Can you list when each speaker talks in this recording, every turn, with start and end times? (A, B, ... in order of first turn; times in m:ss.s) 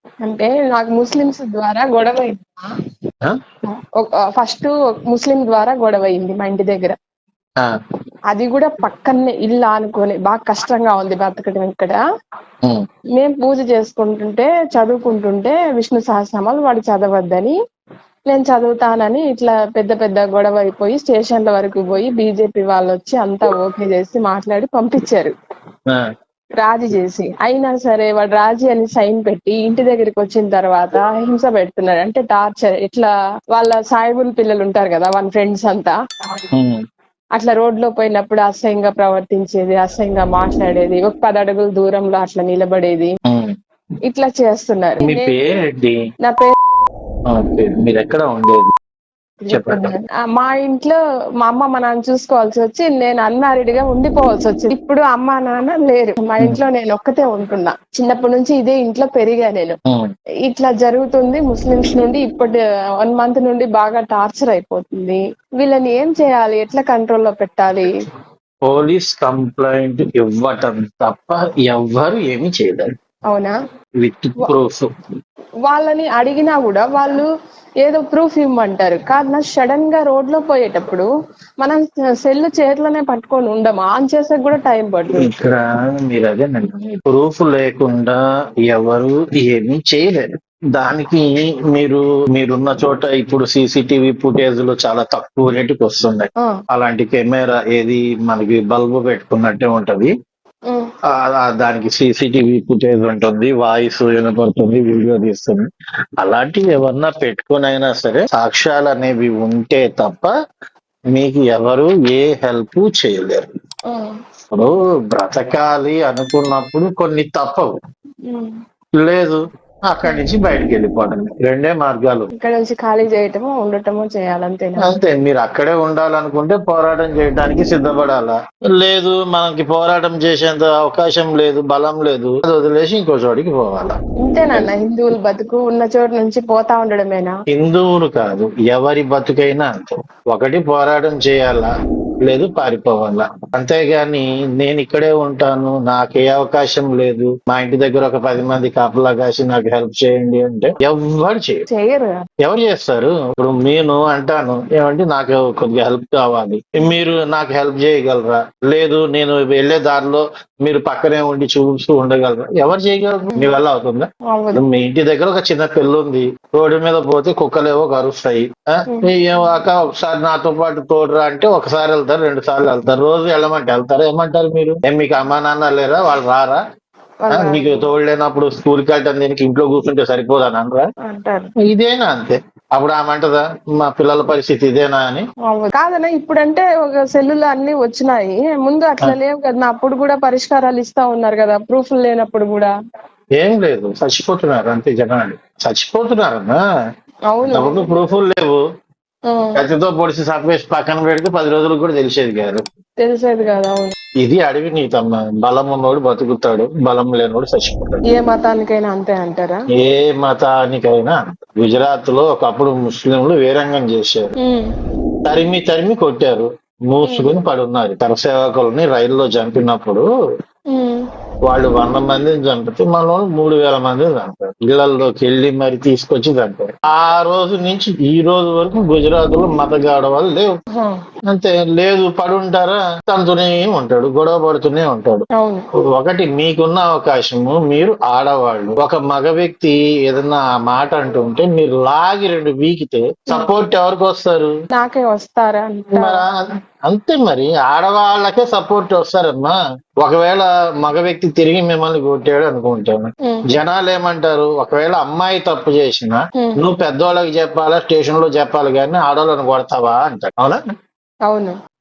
0:00.2-0:02.7 A
0:04.0-0:07.0 A
0:08.3-0:12.0 A
0:13.2-0:17.6 A
0:18.3-0:25.3 A
0:26.6-0:35.9 A
0:36.5-0:36.8 B
0:37.4-0:43.1 A
0:43.2-0:43.5 B
0:44.1-0:45.4 A
0:45.0-0:46.0 B
0:46.2-0:46.5 A
0:47.3-0:48.7 B
0:49.4-0:59.8 A
0:49.5-0:49.9 B
0:59.9-1:00.1 B
1:00.5-1:08.0 A
1:08.6-1:12.9 B
1:13.3-1:13.5 A
1:14.0-1:14.9 B
1:15.7-1:17.3 A
1:17.8-1:21.1 A
1:21.6-1:25.3 A
1:25.2-1:40.1 B
1:41.1-1:45.6 B
1:46.2-1:50.3 B
1:51.1-1:53.5 B
1:53.9-1:54.2 A
1:54.5-1:57.7 B
1:58.3-1:58.6 A
1:59.0-2:02.3 B
2:02.3-2:04.9 A
2:04.8-2:14.0 B
2:14.2-2:17.4 A
2:17.5-2:21.7 B
2:22.2-2:31.6 B
2:31.7-2:32.2 A
2:32.4-2:56.6 B
2:44.3-2:44.6 A
2:57.2-2:57.9 A
2:57.3-3:00.9 B
3:01.0-3:01.5 A
3:01.6-3:05.2 B
3:05.5-3:12.7 A
3:13.4-3:16.6 B
3:17.3-3:18.0 A
3:17.4-3:18.6 B
3:19.3-3:19.6 A
3:19.5-3:22.6 B
3:23.0-3:23.9 A
3:24.2-3:28.0 B
3:28.1-3:29.6 A
3:29.8-3:34.3 B
3:34.4-3:34.7 A
3:35.2-3:40.1 B
3:37.0-3:37.4 A
3:40.7-3:41.0 A
3:41.5-3:50.5 B
3:50.7-3:51.0 A
3:51.3-3:55.3 B
3:55.4-3:55.6 A
3:55.9-4:04.5 B
4:04.7-4:06.2 A
4:05.9-4:06.3 B
4:06.9-4:20.6 B
4:21.3-4:21.6 A